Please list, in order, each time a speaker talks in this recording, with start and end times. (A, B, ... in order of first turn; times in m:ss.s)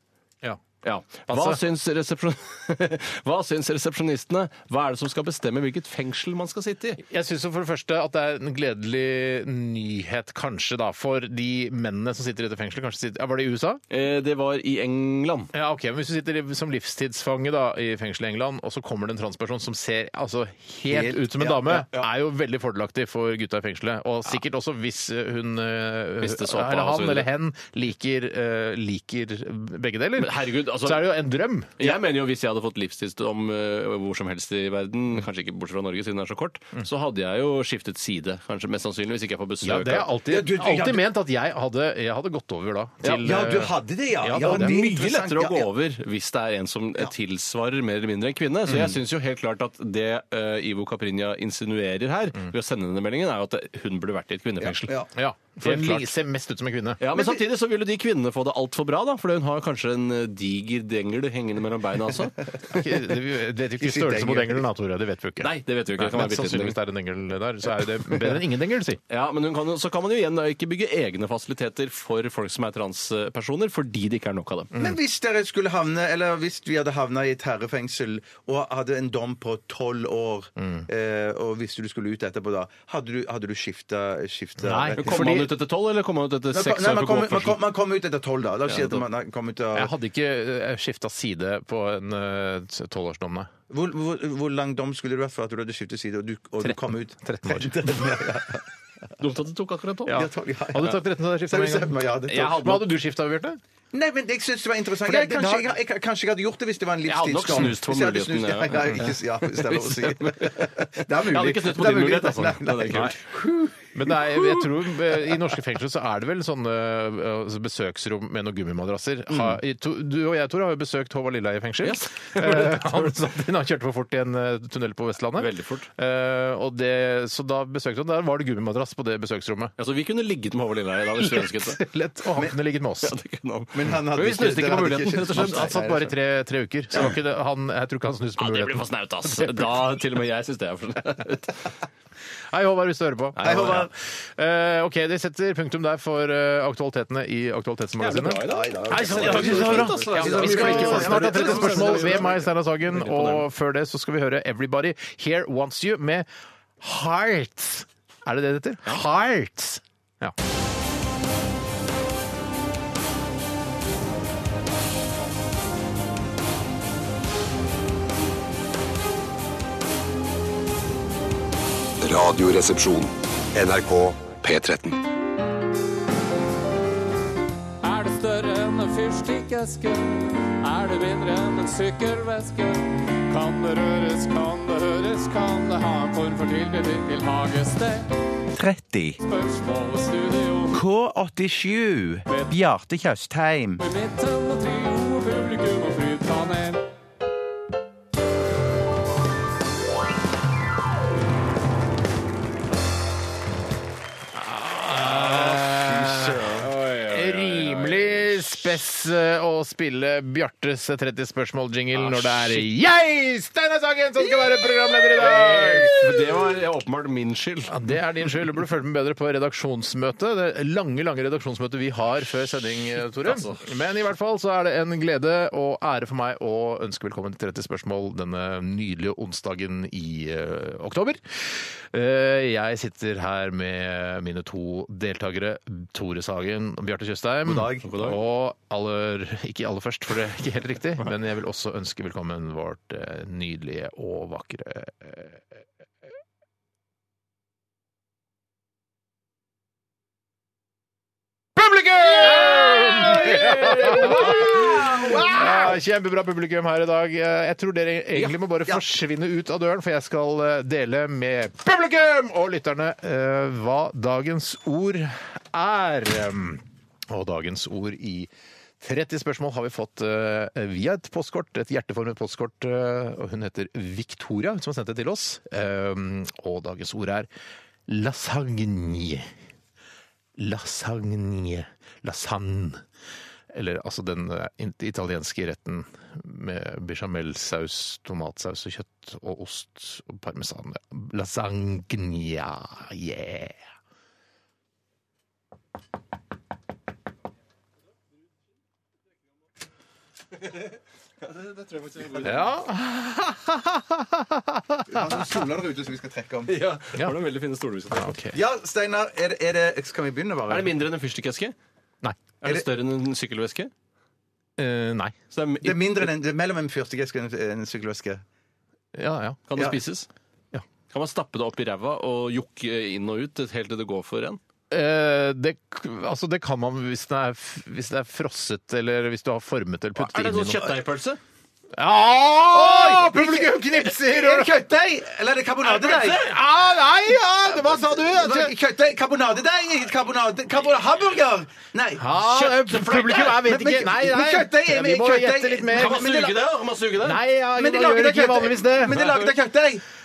0:00.8-0:07.0 A
0:01.3-0:01.6 B
0:07.0-0:13.8 B
0:13.9-0:15.5 A
0:15.5-0:31.8 B
0:20.9-0:22.1 C
0:26.2-0:27.3 A
0:30.2-0:31.2 A
0:31.8-0:40.1 A
0:39.6-0:44.8 B
0:40.3-0:41.0 C
0:43.2-0:45.7 C
0:44.4-0:54.9 A
0:48.7-0:49.0 B
0:54.6-0:55.1 C
0:55.2-0:57.0 B
0:55.6-0:56.1 A
0:57.0-1:02.4 A
0:57.1-0:57.4 C
1:02.7-1:09.0 B
1:03.8-1:04.6 C
1:05.4-1:06.8 A
1:09.1-1:14.7 A
1:14.8-1:25.5 C
1:20.6-1:20.9 B
1:24.6-1:25.5 B
1:24.9-1:27.6 A
1:26.5-1:29.9 C
1:28.7-1:29.0 A
1:29.7-1:33.5 B
1:33.7-1:38.6 C
1:36.6-1:38.2 B
1:39.2-1:40.2 A
1:40.1-1:43.6 B
1:40.1-1:42.6 C
1:42.3-1:42.9 A
1:43.9-1:54.5 C
1:45.0-1:45.7 B
1:45.1-1:45.5 A
1:47.0-1:50.7 A
1:51.2-1:53.2 A
1:53.9-2:09.7 B
2:01.8-2:03.2 A
2:05.4-2:05.9 A
2:09.8-2:11.8 A
2:11.2-2:13.2 B
2:13.0-2:15.8 A
2:13.7-2:16.1 C
2:15.3-2:19.8 B
2:18.4-2:21.7 A
2:22.5-2:36.3 B
2:23.4-2:23.8 A
2:23.4-2:23.9 C
2:28.0-2:33.5 A
2:28.3-2:32.4 C
2:36.8-2:40.3 B
2:52.0-2:55.0 D
2:57.8-3:08.1 E
3:08.5-3:09.2 C
3:09.2-3:10.8 E
3:10.7-3:13.8 C
3:12.3-3:12.6 E
3:13.8-3:16.8 E
3:24.3-3:35.9 B
3:25.0-3:28.5 A
3:26.1-3:26.4 C
3:31.9-3:32.6 A
3:35.2-3:37.8 A
3:35.9-3:36.2 C
3:37.7-4:05.6 B
3:43.2-3:43.6 A
3:57.5-3:57.9 C
3:57.8-3:58.2 A
4:11.6-4:37.3 B
4:12.2-4:15.4 A
4:14.9-4:15.6 C
4:37.9-4:39.3 B
4:40.4-4:42.8 B
4:43.5-4:53.6 B
5:01.2-5:02.5 A
5:02.2-5:05.3 B
5:04.9-5:06.6 C
5:06.5-5:08.2 A
5:07.9-5:08.4 B
5:08.3-5:10.8 C
5:10.5-5:11.6 A
5:12.4-5:13.7 A
5:14.6-5:15.2 B
5:15.3-5:16.1 A
5:15.6-5:18.2 C
5:19.0-5:19.4 B
5:19.5-5:20.1 A
5:20.9-5:24.4 A
5:24.7-5:30.8 B
5:30.0-5:31.2 A
5:31.8-5:34.5 B
5:32.5-5:36.3 C
5:35.6-5:36.4 A
5:36.0-5:38.5 B
5:38.0-5:42.1 C
5:42.0-5:46.3 B
5:42.2-5:43.4 A
5:43.4-5:46.5 C
5:45.7-5:47.2 A
5:47.0-5:49.3 B
5:47.5-5:49.8 C
5:48.9-5:49.3 A